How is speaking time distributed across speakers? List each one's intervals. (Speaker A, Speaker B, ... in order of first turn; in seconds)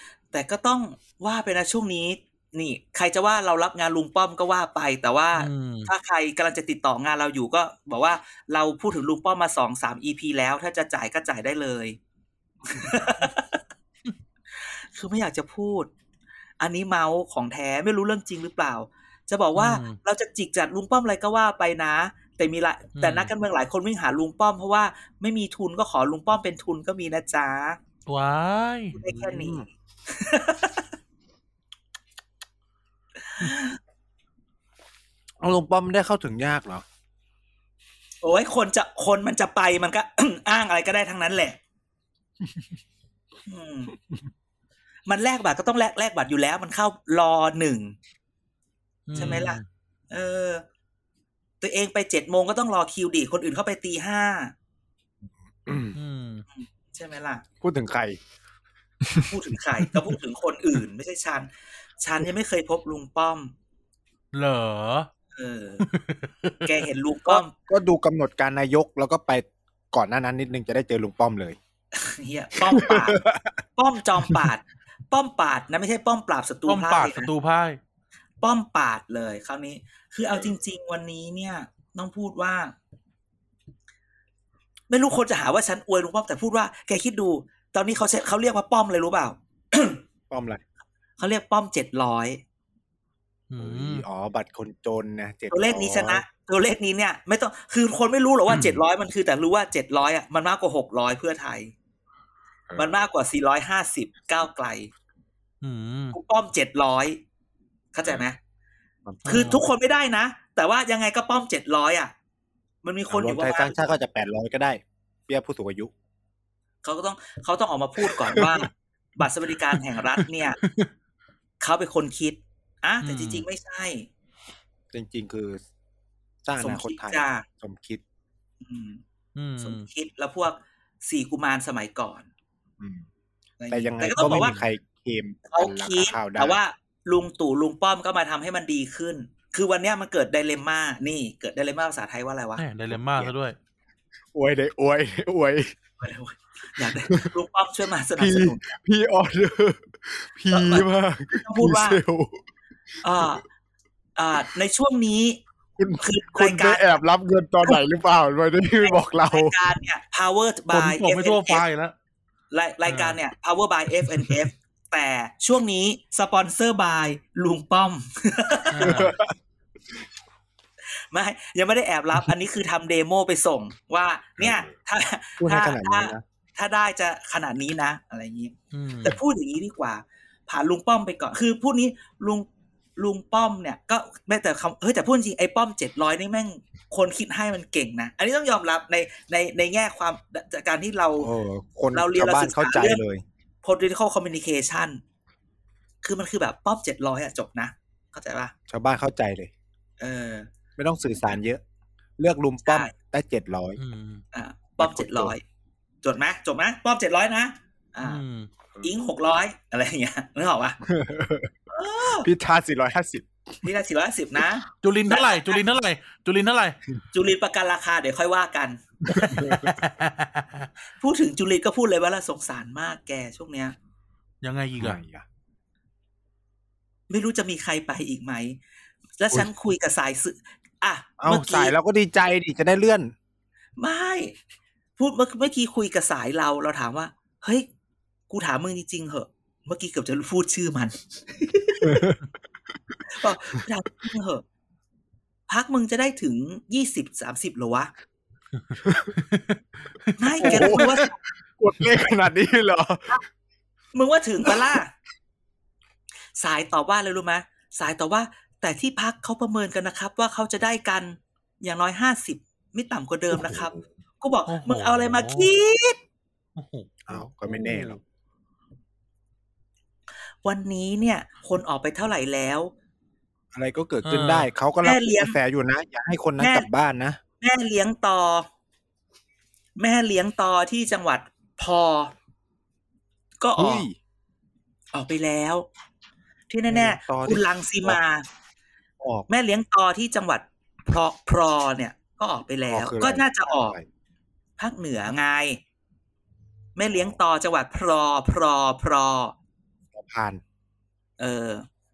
Speaker A: 0.3-12.0, 12.6-13.6, 14.6-15.9, 16.6-27.8, 28.9-30.9, 33.2-33.8, 38.2-41.6, 43.5-43.9, 45.0-48.0, 49.1-49.6, 50.1-50.6, 51.6-54.5, 56.5-57.4, 59.2-63.5, 65.3-65.9, 66.6-67.5, 71.9-73.2, 73.8-77.3, 78.4-82.7, 84.9-90.0, 91.2-92.4, 95.5-101.7, 102.8-104.9, 106.1-107.2, 107.9-108.4, 109.2-112.1, 112.8-113.9, 116.8-120.6, 121.6-124.1, 126.6-127.4, 128.6-129.0, 129.6-132.3, 133.6-134.6, 135.5-142.6, 146.0-148.6, 150.5-150.9, 151.4-152.0, 153.0-153.4, 154.2-155.4, 156.0-157.0, 158.8-161.6, 162.5-169.0, 171.1-191.3, 191.9-193.0, 193.6-195.0, 196.0-198.5, 200.0-200.5, 202.6-202.9, 204.3-205.4, 206.0-208.2, 208.8-210.8, 211.7-212.3, 213.6-215.6, 217.1-219.4, 221.0-223.8, 227.1-228.6, 229.2-231.7, 233.8-234.3, 235.0-237.7, 238.3-242.1, 243.0-244.4, 245.5-247.9, 250.2-251.1, 253.9-254.9, 256.4-266.0, 270.4-272.7, 274.8-275.4, 276.4-276.7, 277.4-278.5, 279.8-282.1, 283.4-283.9, 284.9-285.7, 286.5-288.2, 289.3-293.8, 294.6-295.6, 296.8-299.3, 301.2-301.6
Speaker B: 5.4-5.9, 19.5-20.0, 23.0-23.3, 28.1-29.0, 49.1-49.6, 55.9-56.4, 64.3-65.1, 65.8-66.7, 76.7-77.8, 93.5-94.0, 105.6-106.2, 109.2-109.6, 120.6-120.9, 123.0-123.4, 129.3-129.8, 134.2-134.6, 142.6-143.6, 160.7-161.9, 162.9-163.2, 168.7-169.2, 178.7-179.2, 203.8-204.2, 208.0-208.5, 214.8-216.8, 219.2-220.7, 224.4-225.0, 249.2-249.6, 250.2-250.8, 264.5-265.5, 266.6-268.0, 274.0-274.5
Speaker C: 29.1-29.6, 35.4-36.8, 49.1-49.4, 55.6-56.0, 57.6-58.2, 59.0-59.3, 67.2-71.6, 72.6-73.6, 74.2-74.5, 90.3-90.6, 93.6-96.2, 102.7-103.0, 109.0-109.6, 113.1-115.9, 118.0-118.5, 124.9-125.6, 126.4-128.0, 132.8-133.1, 133.7-136.6, 142.9-143.3, 144.3-145.7, 148.2-152.4, 155.8-159.6, 168.8-169.3, 174.4-174.7, 175.4-176.2, 191.2-193.2, 198.7-199.5, 200.8-201.6, 202.2-203.8, 204.8-205.3, 210.8-211.5, 212.2-213.3, 219.1-219.8, 224.8-225.2, 231.2-233.1, 241.8-242.2, 248.8-249.2, 250.4-253.2, 263.3-263.8, 267.1-268.0, 273.5-277.2, 283.6-283.9, 286.7-288.0, 289.0-289.3, 292.7-293.9, 299.9-300.4